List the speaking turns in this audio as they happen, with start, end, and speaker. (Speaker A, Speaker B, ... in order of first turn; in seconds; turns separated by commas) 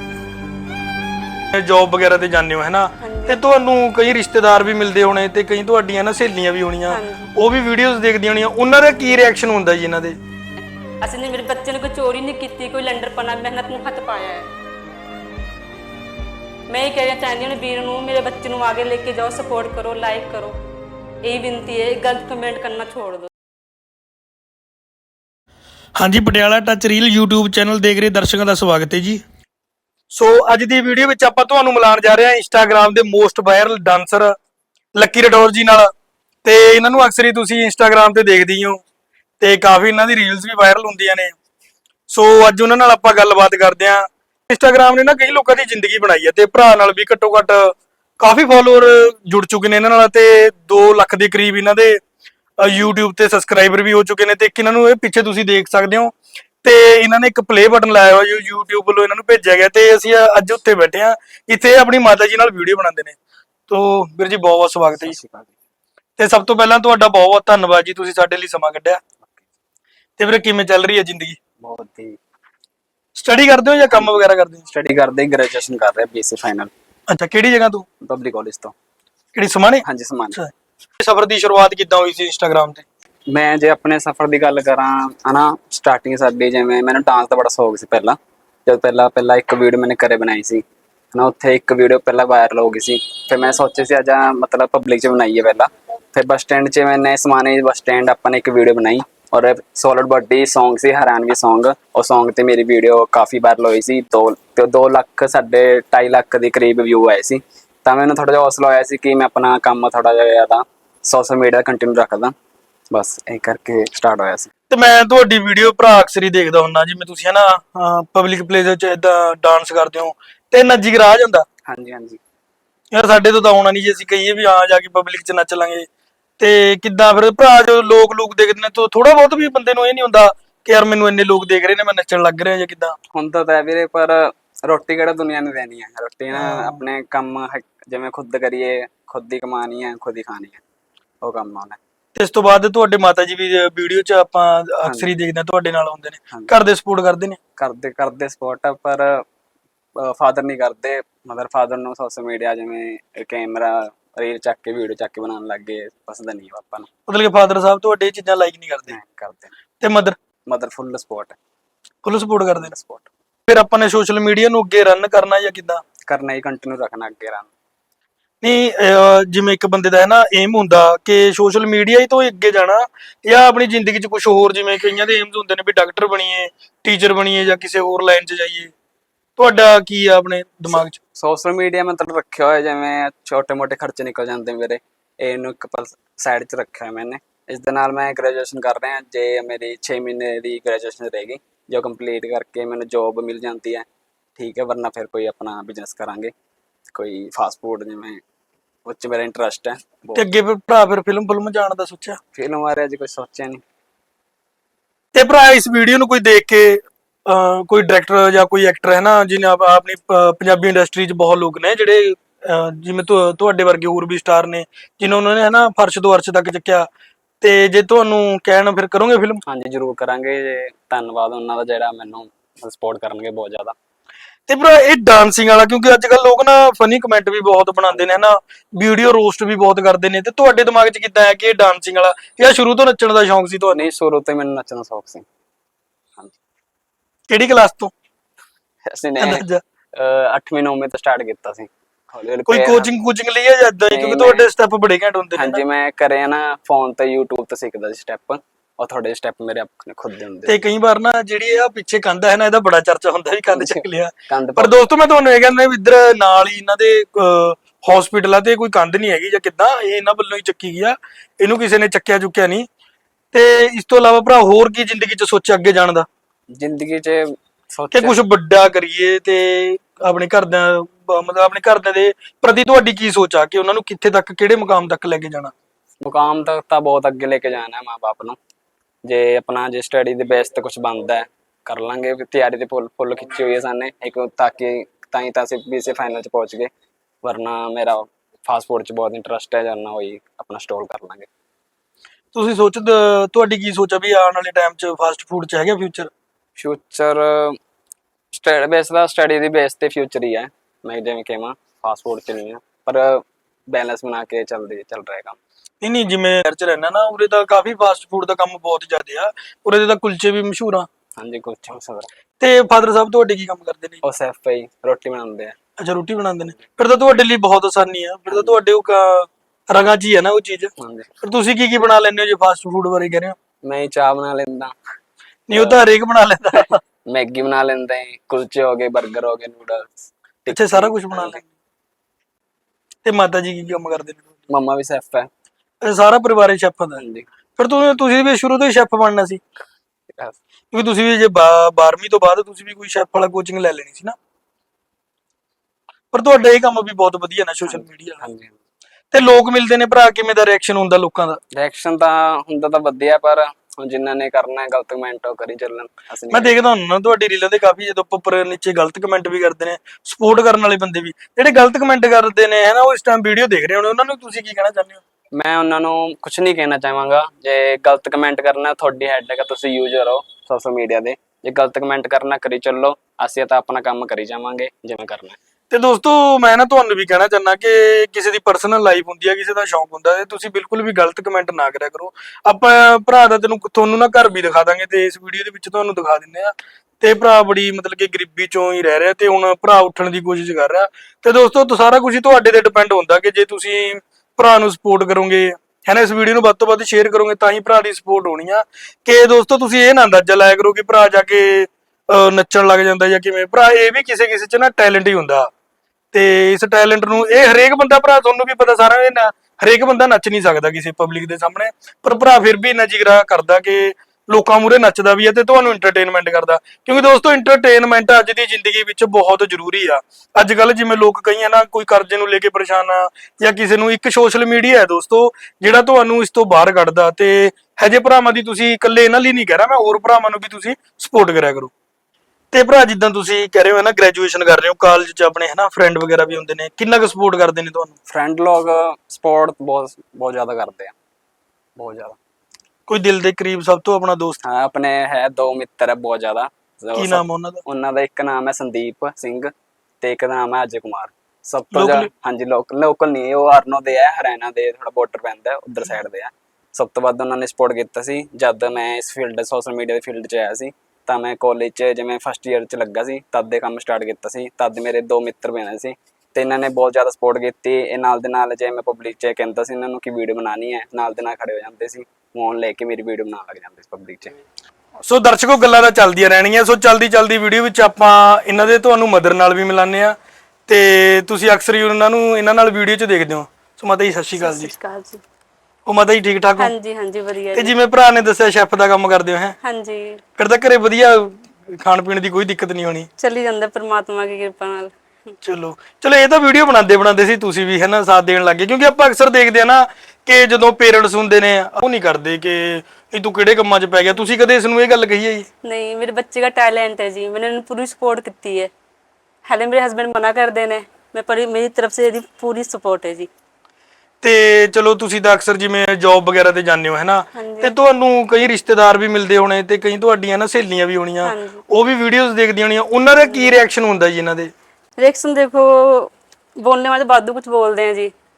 Speaker A: 1.5-10.2, Speaker B: 3.0-3.4, Speaker B: 6.9-7.3, Speaker B: 11.0-14.5, Speaker B: 16.7-20.6, Speaker B: 21.2-23.3, Speaker A: 25.9-29.2, Speaker A: 30.1-34.3, Speaker A: 35.0-35.9, Speaker A: 36.4-38.8, Speaker A: 39.4-41.3, Speaker A: 42.1-52.0, Speaker A: 52.6-56.1, Speaker A: 56.6-63.2, Speaker A: 63.7-65.2, Speaker C: 65.0-65.6, Speaker A: 66.2-69.0, Speaker A: 70.2-71.4, Speaker C: 71.6-72.2, Speaker A: 73.1-74.7, Speaker C: 74.7-76.7, Speaker A: 77.1-77.9, Speaker C: 78.0-78.7, Speaker A: 79.3-82.8, Speaker C: 79.8-80.4, Speaker C: 83.3-112.3, Speaker C: 112.9-114.5, Speaker A: 114.7-121.4, Speaker C: 121.7-122.2, Speaker A: 122.9-125.9, Speaker A: 126.4-133.0, Speaker C: 133.1-140.6, Speaker A: 136.3-136.8, Speaker C: 141.2-141.8, Speaker A: 142.2-147.4, Speaker C: 147.6-149.2, Speaker C: 150.0-156.9, Speaker A: 157.1-159.0, Speaker C: 158.9-159.6, Speaker A: 159.8-160.2, Speaker C: 160.5-161.4, Speaker A: 162.0-162.7, Speaker C: 162.6-163.1, Speaker A: 163.5-165.8, Speaker C: 166.1-167.5, Speaker A: 168.4-178.7, Speaker A: 179.4-181.0, Speaker C: 181.2-193.8, Speaker C: 194.4-196.3, Speaker C: 196.9-198.2, Speaker C: 198.8-200.2, Speaker A: 200.2-202.2, Speaker C: 202.3-203.6, Speaker A: 205.1-216.9, Speaker A: 217.4-219.4, Speaker C: 219.5-223.8, Speaker A: 224.5-233.8, Speaker C: 227.9-228.2, Speaker C: 233.7-235.2, Speaker A: 237.3-237.9, Speaker C: 238.8-239.4, Speaker A: 239.2-239.6, Speaker C: 239.9-242.9, Speaker A: 242.5-245.6, Speaker C: 243.9-244.5, Speaker C: 245.3-250.6, Speaker A: 250.5-262.7, Speaker C: 253.5-254.9, Speaker A: 263.3-266.1, Speaker C: 266.5-268.2, Speaker A: 267.9-275.5, Speaker C: 276.0-278.4, Speaker C: 279.1-286.7, Speaker C: 287.2-291.3, Speaker A: 292.3-296.1, Speaker C: 296.6-297.6, Speaker C: 298.3-305.4, Speaker A: 305.8-310.9, Speaker C: 311.2-312.1, Speaker A: 312.4-314.0, Speaker C: 314.0-315.6, Speaker A: 315.8-320.7, Speaker C: 320.8-321.1, Speaker A: 321.2-323.4, Speaker C: 323.6-324.7, Speaker A: 325.5-326.8, Speaker C: 325.5-325.8, Speaker C: 327.1-331.4, Speaker A: 330.5-331.4, Speaker A: 333.0-334.3, Speaker C: 334.5-335.3, Speaker A: 335.8-337.0, Speaker C: 337.0-337.3, Speaker A: 337.6-339.4, Speaker A: 340.7-344.1, Speaker A: 346.1-348.3, Speaker C: 347.7-348.6, Speaker A: 349.1-351.4, Speaker C: 351.6-356.5, Speaker A: 356.3-365.0, Speaker C: 365.4-375.4, Speaker A: 375.7-405.5, Speaker A: 406.1-431.7, Speaker A: 432.5-437.9, Speaker C: 438.1-440.9, Speaker C: 441.8-442.2, Speaker A: 442.9-444.4, Speaker C: 444.4-449.5, Speaker A: 446.9-447.6, Speaker C: 450.0-474.4, Speaker A: 451.7-452.1, Speaker A: 475.0-480.1, Speaker A: 480.7-484.7, Speaker B: 484.4-485.2, Speaker A: 485.9-486.7, Speaker B: 486.6-487.7, Speaker A: 487.5-489.6, Speaker B: 489.6-490.2, Speaker A: 490.4-493.1, Speaker B: 493.2-494.9, Speaker A: 495.4-505.5, Speaker B: 505.6-508.7, Speaker B: 509.4-513.3, Speaker A: 514.2-524.5, Speaker B: 517.4-517.7, Speaker B: 521.2-521.6, Speaker B: 523.2-523.5, Speaker B: 525.0-528.1